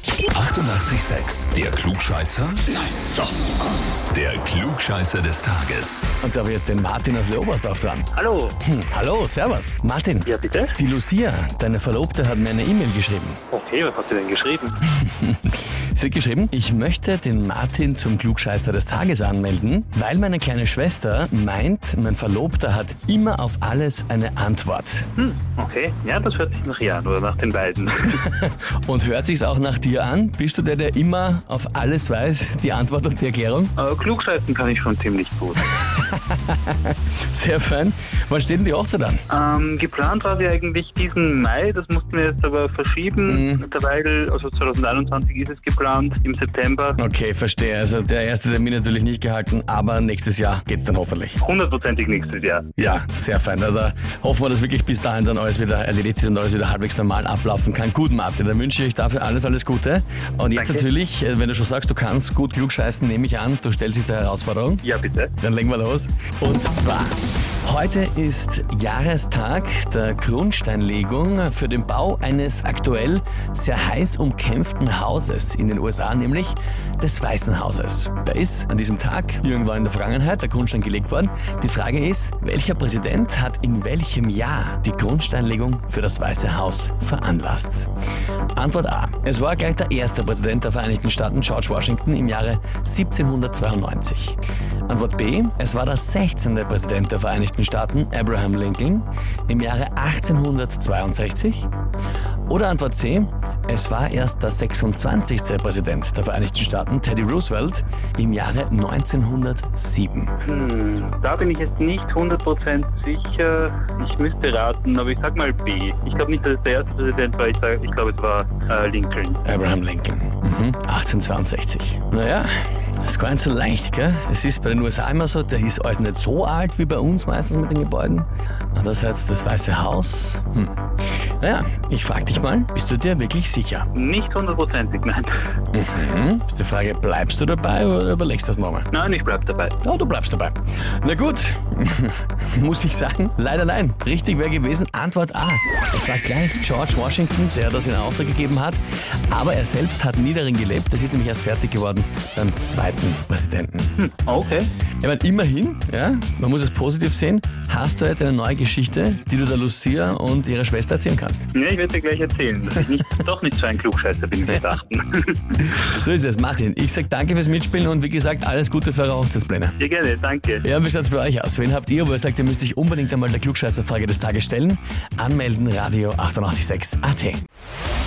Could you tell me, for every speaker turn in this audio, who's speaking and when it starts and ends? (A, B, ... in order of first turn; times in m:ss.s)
0:00.3-0:02.7 A
0:04.1-0:06.1 A
0:06.2-0:08.1 B
0:08.1-0:08.6 C
0:08.6-0:13.4 B
0:10.2-0:10.8 C
0:13.5-0:14.8 C
0:14.9-0:25.1 B
0:25.2-0:28.2 C
0:28.2-0:33.7 B
0:33.8-0:35.7 C
0:35.8-0:39.2 B
0:39.3-0:47.0 C
0:43.3-0:43.6 B
0:47.0-0:51.4 B
0:51.4-0:52.7 C
0:52.8-1:04.8 B
1:00.5-1:00.9 C
1:04.8-1:05.3 C
1:05.4-1:27.9 B
1:28.6-1:41.7 B
1:42.5-1:50.3 B
1:50.4-1:59.4 C
1:59.4-2:10.8 B
2:11.4-2:13.9 B
2:13.9-2:15.4 C
2:15.7-2:18.9 B
2:18.9-2:19.8 C
2:19.8-2:33.9 B
2:34.0-2:34.7 C
2:35.0-2:41.5 B
2:41.5-2:45.8 C
2:45.8-2:49.8 B
2:49.8-2:50.6 C
2:50.6-2:57.4 B